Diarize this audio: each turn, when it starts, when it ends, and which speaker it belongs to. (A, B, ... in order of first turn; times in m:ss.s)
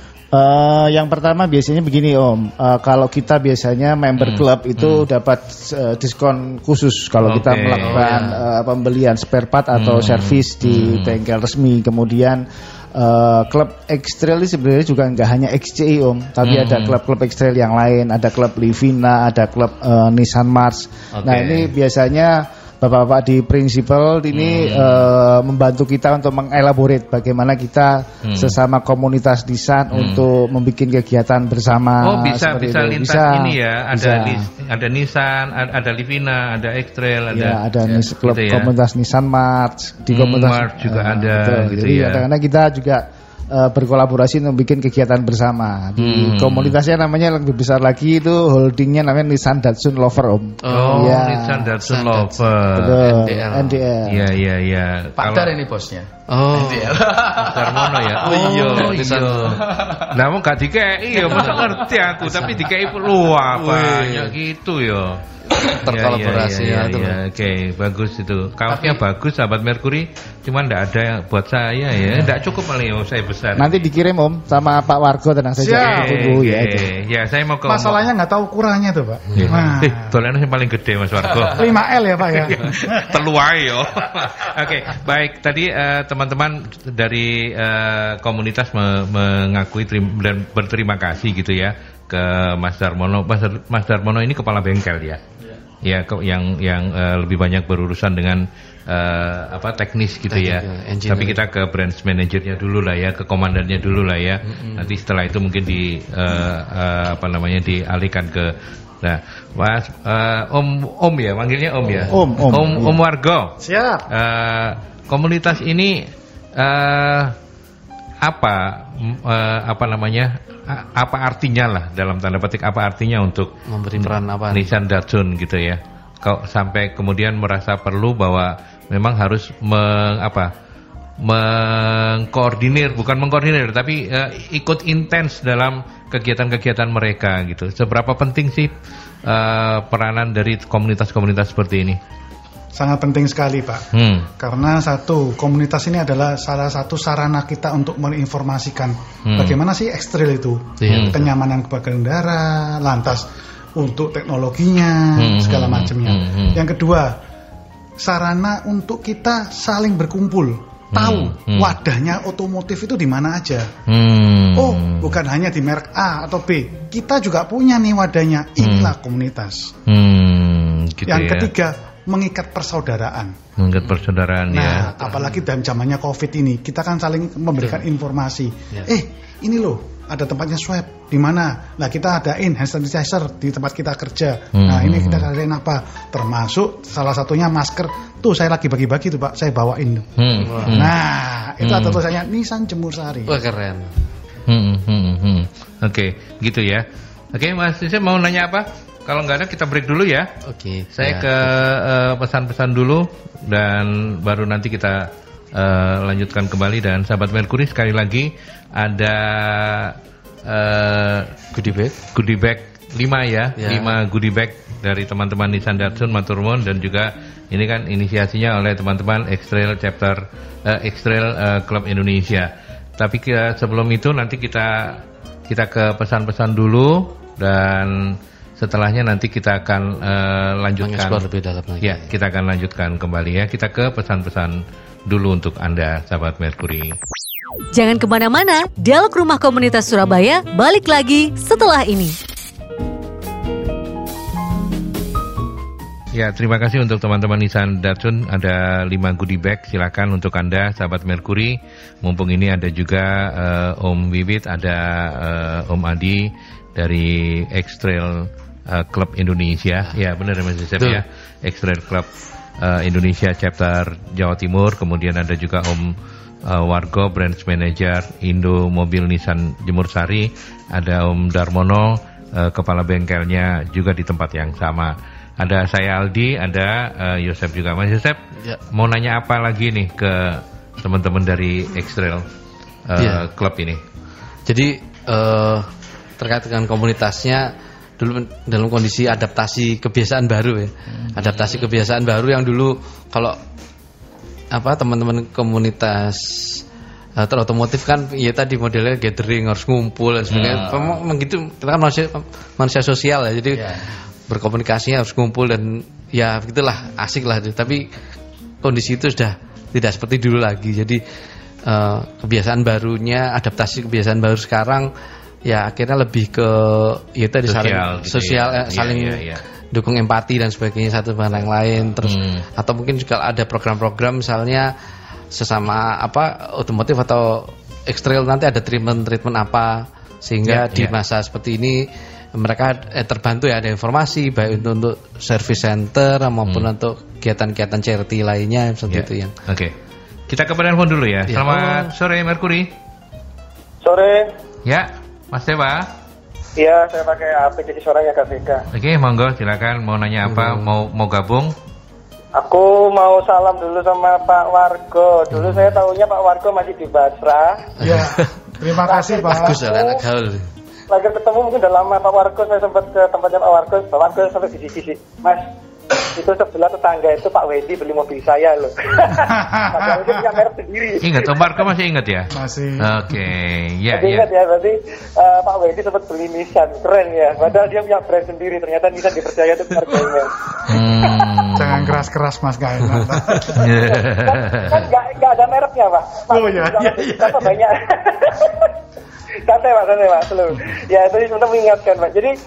0:00.3-0:34.5 A
0:04.2-0:05.1 B
0:07.2-0:08.1 B
0:07.8-0:08.4 C
0:09.7-0:11.2 B
0:16.4-0:17.0 B
0:21.2-0:21.7 B
0:24.3-0:25.1 B
0:28.2-0:28.6 B
0:29.9-0:30.2 B
0:32.0-0:38.7 B
0:37.3-0:51.8 A
0:40.1-0:42.2 B
0:46.0-0:46.8 B
0:50.6-0:52.5 C
0:50.7-0:53.3 B
0:52.7-0:54.3 A
0:53.1-0:53.8 C
0:54.0-0:55.5 B
0:55.2-0:58.9 D
0:56.3-0:57.0 C
0:57.4-1:05.2 B
0:58.2-0:59.7 C
0:59.7-1:00.1 D
1:01.1-1:02.7 C
1:03.5-1:04.4 C
1:05.5-1:07.2 C
1:05.7-1:13.8 B
1:08.7-1:09.0 D
1:13.6-1:16.9 A
1:15.6-1:16.1 E
1:15.8-1:18.0 B
1:17.7-1:20.2 E
1:19.3-1:21.8 B
1:21.5-1:23.1 E
1:22.3-1:35.2 B
1:35.8-1:53.6 B
1:40.3-1:41.4 C
1:44.4-1:44.9 C
1:51.9-1:52.2 C
1:52.1-1:53.0 A
1:53.6-1:54.0 E
1:54.1-1:56.0 B
1:56.6-1:57.3 B
1:58.2-2:10.5 B
2:03.6-2:04.7 C
2:11.2-2:18.7 B
2:19.2-2:22.0 B
2:22.7-2:23.9 E
2:23.9-2:24.3 B
2:24.4-2:37.2 E
2:29.3-2:29.6 B
2:30.8-2:31.2 C
2:30.9-2:31.2 B
2:35.2-2:36.6 B
2:38.0-2:43.7 E
2:40.9-2:41.8 B
2:43.9-2:45.2 B
2:44.5-2:49.7 E
2:48.6-2:48.9 B
2:49.9-2:51.5 B
2:51.1-2:53.3 E
2:53.6-2:55.0 B
2:54.5-3:10.0 E
2:55.1-2:55.4 C
3:04.5-3:05.3 B
3:10.2-3:10.9 B
3:10.4-3:10.8 C
3:10.7-3:13.4 E
3:11.6-3:12.0 B
3:13.3-3:13.9 C
3:14.5-3:20.3 B
3:20.4-3:21.5 C
3:20.9-3:30.0 B
3:30.5-3:31.3 B
3:31.5-3:32.0 C
3:32.1-3:51.2 B
3:33.6-3:33.9 C
3:50.8-3:52.1 C
3:51.8-3:56.9 B
3:57.7-4:02.1 F
4:06.1-4:38.2 B
4:20.8-4:21.0 C
4:38.7-4:42.2 B
4:42.9-4:43.8 B
4:43.0-4:43.3 C
4:44.5-4:53.4 C
4:54.5-4:56.6 C
4:57.2-5:08.0 C
5:00.3-5:00.7 B
5:00.4-5:01.0 D
5:03.5-5:03.9 D
5:08.6-5:11.0 C
5:11.6-5:14.9 C
5:15.4-5:24.7 C
5:17.5-5:19.4 B
5:22.0-5:22.4 B
5:25.3-5:39.3 C
5:30.4-5:30.9 B
5:38.9-5:39.8 B
5:40.3-5:42.7 B
5:41.3-5:41.9 C
5:43.8-5:44.3 G
5:44.6-5:45.9 B
5:46.6-5:48.7 G
5:48.7-5:51.5 B
5:50.2-5:50.7 C
5:52.4-5:57.6 G
5:57.8-5:58.3 C
5:57.8-5:59.6 E
5:58.8-6:00.0 G
5:59.2-6:00.4 C
6:00.9-6:05.5 G
6:06.0-6:11.6 G
6:09.2-6:10.4 E
6:11.0-6:14.3 B
6:12.3-6:12.9 E
6:13.9-6:20.3 G
6:20.7-6:22.0 B
6:21.5-6:23.8 E
6:23.5-6:24.8 B
6:23.7-6:28.7 G
6:26.3-6:27.6 E
6:29.4-6:32.3 G